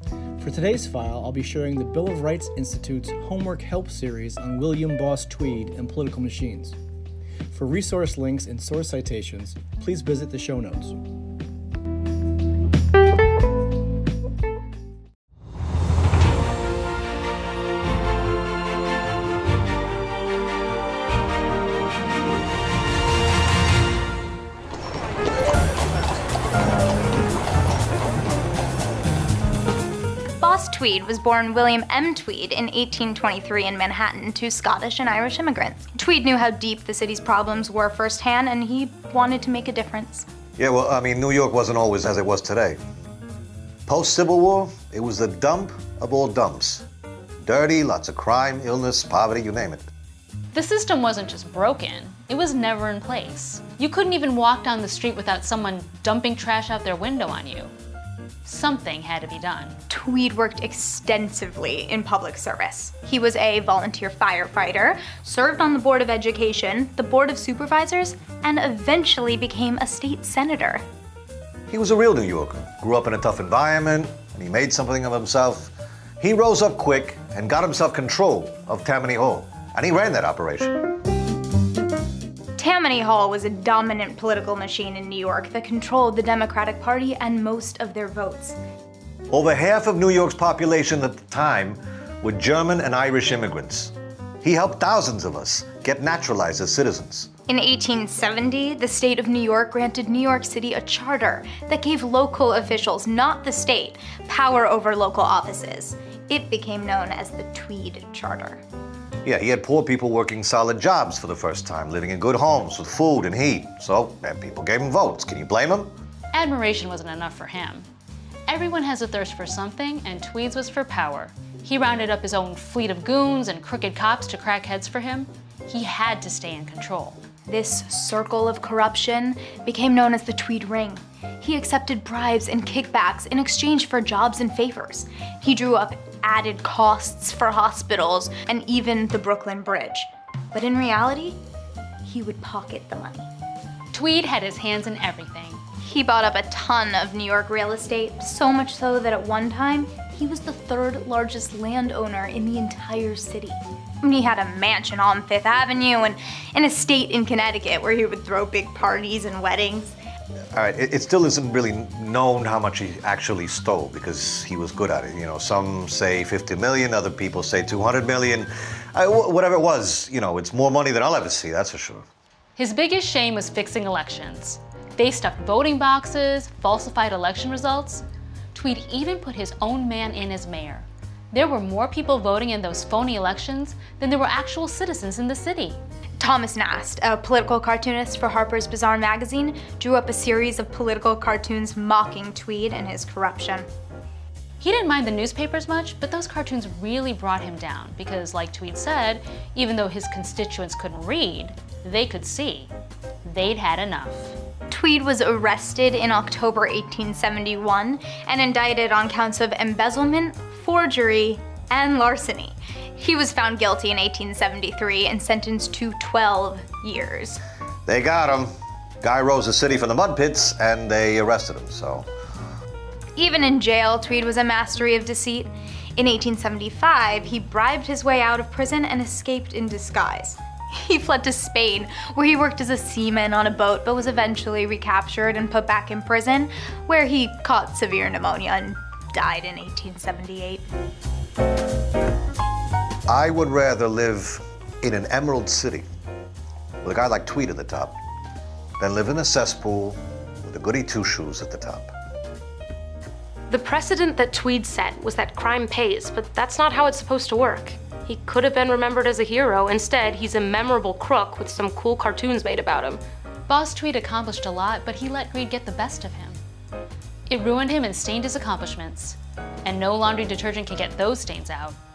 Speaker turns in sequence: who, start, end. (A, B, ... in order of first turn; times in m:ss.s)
0:00.4-0:06.8 A
0:07.5-0:11.0 A
0:30.4-0:40.3 B
0:40.6-0:42.8 C
0:43.9-0:46.8 C
0:47.4-0:49.9 C
0:50.5-0:57.7 D
0:58.4-0:59.8 D
0:59.9-1:10.8 B
1:11.7-1:20.8 C
1:22.6-1:28.6 B
1:29.3-1:37.3 C
1:37.5-1:48.6 B
1:49.2-1:55.9 C
1:56.3-1:57.9 D
1:58.5-2:07.2 D
2:07.5-2:21.4 B
2:22.0-2:23.3 B
2:23.9-2:25.6 D
2:25.8-2:40.0 B
2:40.5-2:52.0 C
2:52.6-3:05.8 D
3:06.2-3:13.7 B
3:14.6-3:22.7 D
3:23.2-3:24.4 D
3:24.7-3:37.4 B
3:37.9-3:38.5 C
3:39.0-3:42.1 C
3:43.2-4:00.6 B
4:03.1-4:05.9 C
4:06.8-4:08.0 C
4:08.8-4:11.9 C
4:13.5-4:23.0 E
4:23.5-4:26.4 D
4:27.3-4:31.8 D